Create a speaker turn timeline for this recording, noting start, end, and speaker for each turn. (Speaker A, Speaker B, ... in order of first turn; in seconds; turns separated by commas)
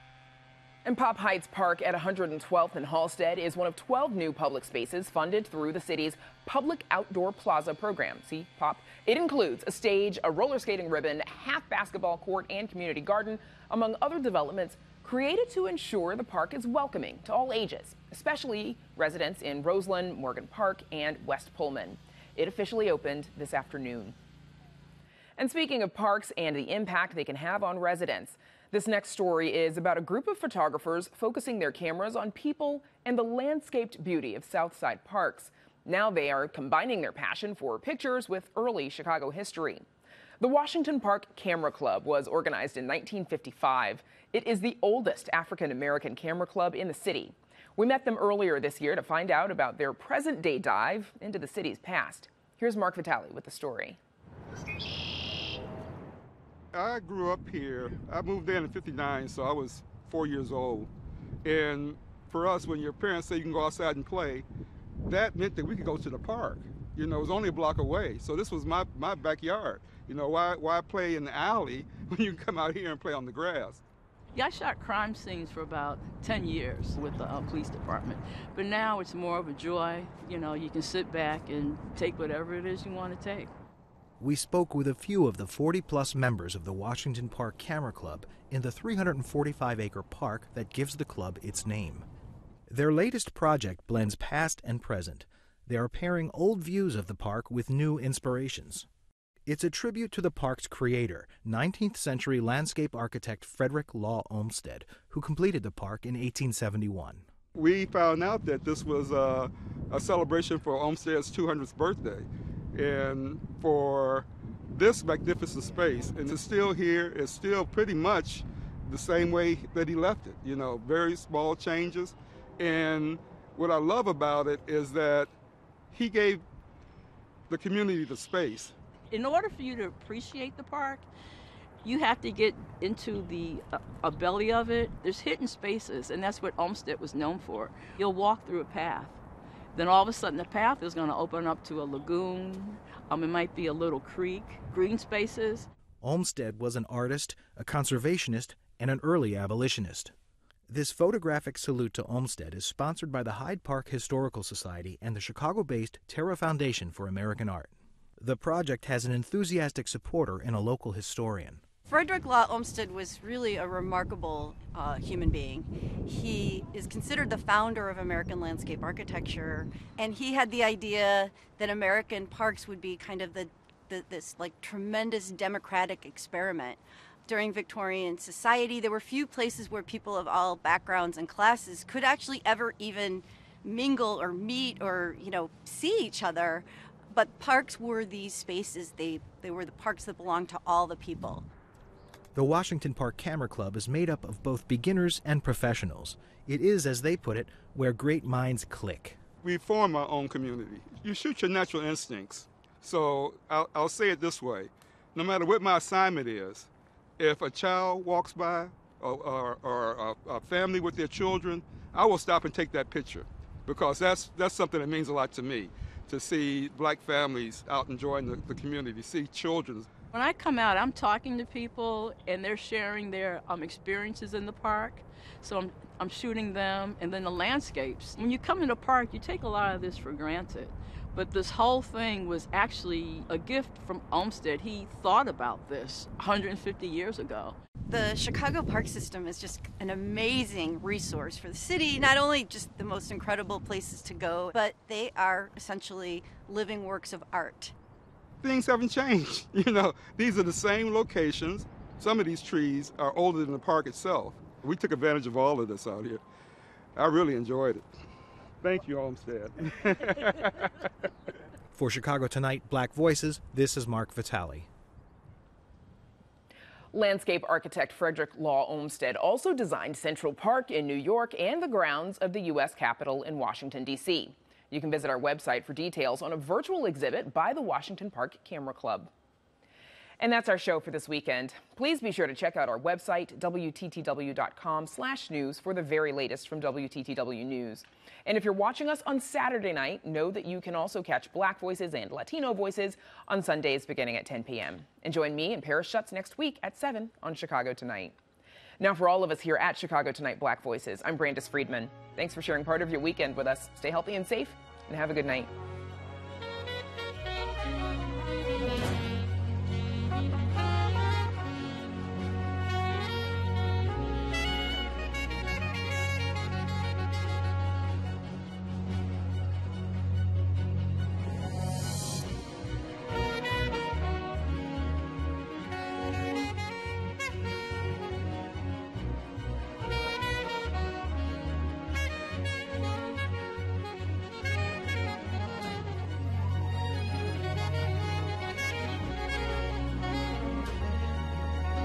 Speaker A: 0.8-24.2, Speaker A: 25.4-39.9, Speaker A: 40.4-54.0, Speaker B: 56.7-60.9, Speaker B: 61.4-64.5, Speaker B: 65.0-73.8, Speaker C: 74.3-83.5, Speaker D: 84.2-92.1, Speaker D: 92.7-98.9, Speaker D: 99.5-107.2, Speaker B: 107.5-125.3, Speaker B: 125.9-126.4, Speaker B: 127.5-128.7, Speaker C: 129.1-131.1, Speaker C: 131.8-139.2, Speaker C: 139.8-145.7, Speaker D: 146.0-150.1, Speaker D: 150.7-161.6, Speaker E: 161.9-191.4, Speaker D: 192.3-199.2, Speaker B: 199.4-219.9, Speaker C: 220.1-237.6, Speaker E: 237.9-247.7, Speaker B: 248.4-256.2, Speaker B: 257.0-257.9, Speaker B: 258.6-260.7, Speaker D: 261.7-264.7, Speaker A: 266.9-279.1, Speaker A: 280.2-298.2, Speaker A: 298.8-305.5